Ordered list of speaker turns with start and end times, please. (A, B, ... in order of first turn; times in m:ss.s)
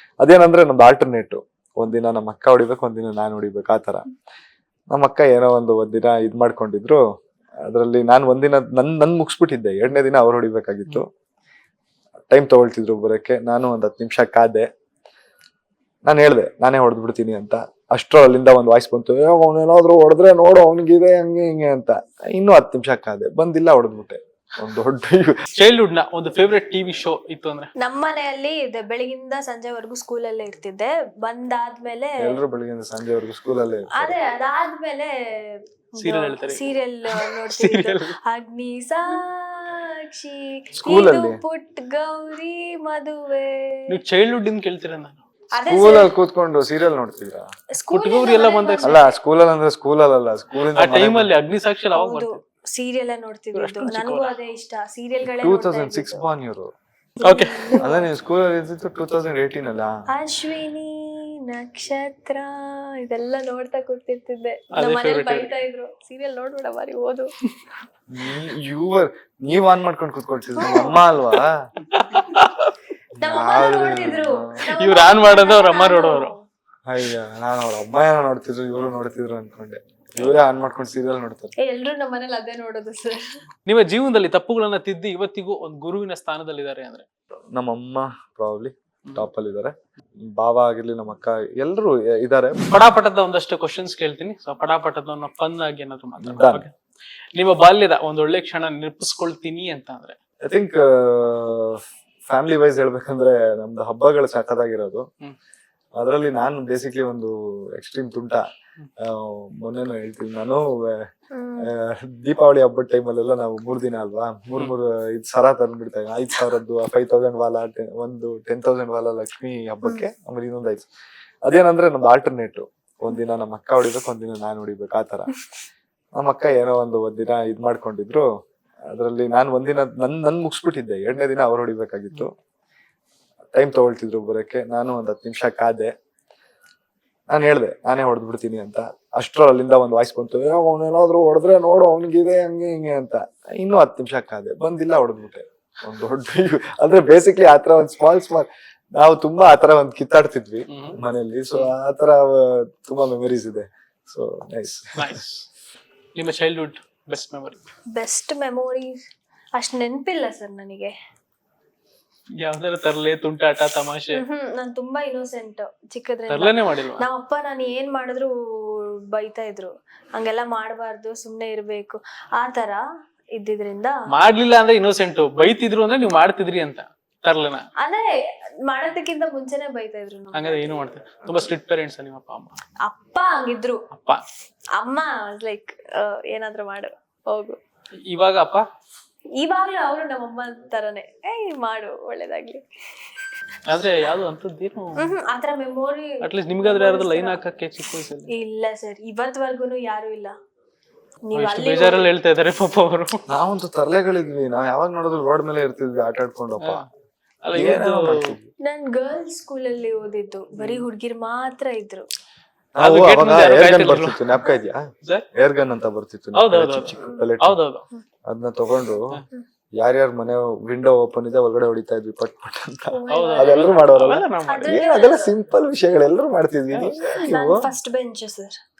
0:00.2-0:04.0 A
0:04.9-0:07.0 A
0:07.6-0:11.0 A
0:12.3-0:14.7 A
0:16.0-0:25.4 A
0:25.5-0:27.7 B
0:27.8-0:32.4 C
0:32.2-0:34.2 A
0:34.0-0:43.8 C
0:36.0-0:38.1 B
0:40.8-0:41.4 A
0:43.9-0:45.2 B
0:45.5-0:46.1 C
0:45.7-0:47.5 A
0:47.7-0:49.1 C
0:47.9-0:49.0 B
0:48.8-0:51.3 A
0:50.7-0:52.4 B
0:51.9-0:56.2 C
0:53.6-0:54.3 B
0:55.2-0:56.7 A
0:57.2-0:58.1 C
0:57.2-0:57.8 B
0:57.8-1:00.0 A
1:00.1-1:07.3 C
1:04.7-1:05.5 B
1:08.1-1:11.6 A
1:10.6-1:11.0 C
1:11.9-1:12.8 B
1:13.2-1:14.6 A
1:13.2-1:16.4 C
1:14.7-1:16.3 B
1:16.9-1:21.5 A
1:21.6-1:23.2 C
1:23.7-1:27.0 B
1:27.5-1:32.7 A
1:32.7-1:36.7 B
1:36.2-1:36.7 A
1:37.4-1:40.2 B
1:40.4-1:45.0 A
1:46.0-1:48.4 A
1:49.0-1:51.1 A
1:51.3-1:51.7 C
1:51.6-2:00.9 A
2:01.4-2:05.3 A
2:06.2-2:08.3 A
2:08.9-2:12.3 A
2:13.5-2:15.9 A
2:17.3-2:35.2 A
2:30.7-2:31.0 B
2:35.0-2:35.5 B
2:36.2-2:37.6 B
2:37.9-2:39.0 C
2:39.6-2:40.9 C
2:42.4-2:44.2 B
2:44.1-2:52.8 C
2:46.3-2:47.1 B
2:53.4-2:54.0 C
2:54.1-2:57.6 B
2:57.8-2:58.1 C
2:58.7-3:00.9 C
3:00.3-3:02.6 B
3:02.8-3:03.8 C
3:03.9-3:04.2 B
3:04.8-3:07.6 C
3:08.1-3:08.7 B
3:09.4-3:12.6 C
3:13.7-3:15.1 B
3:15.0-3:17.4 C
3:16.2-3:18.3 B
3:18.3-3:20.3 C
3:21.2-3:22.1 C
3:21.3-3:23.2 B
3:23.3-3:26.8 A
3:26.6-3:26.9 B
3:27.4-3:28.3 B
3:27.5-3:28.5 A
3:28.6-3:32.1 C
3:30.6-3:30.8 B
3:32.7-3:37.6 A
3:32.8-3:34.3 B
3:36.3-3:37.8 B
3:38.2-3:39.2 A
3:39.8-3:47.7 A
3:42.9-3:43.7 C
3:43.1-3:44.9 B
3:44.5-3:45.3 C
3:46.7-3:47.0 B
3:47.2-3:48.6 C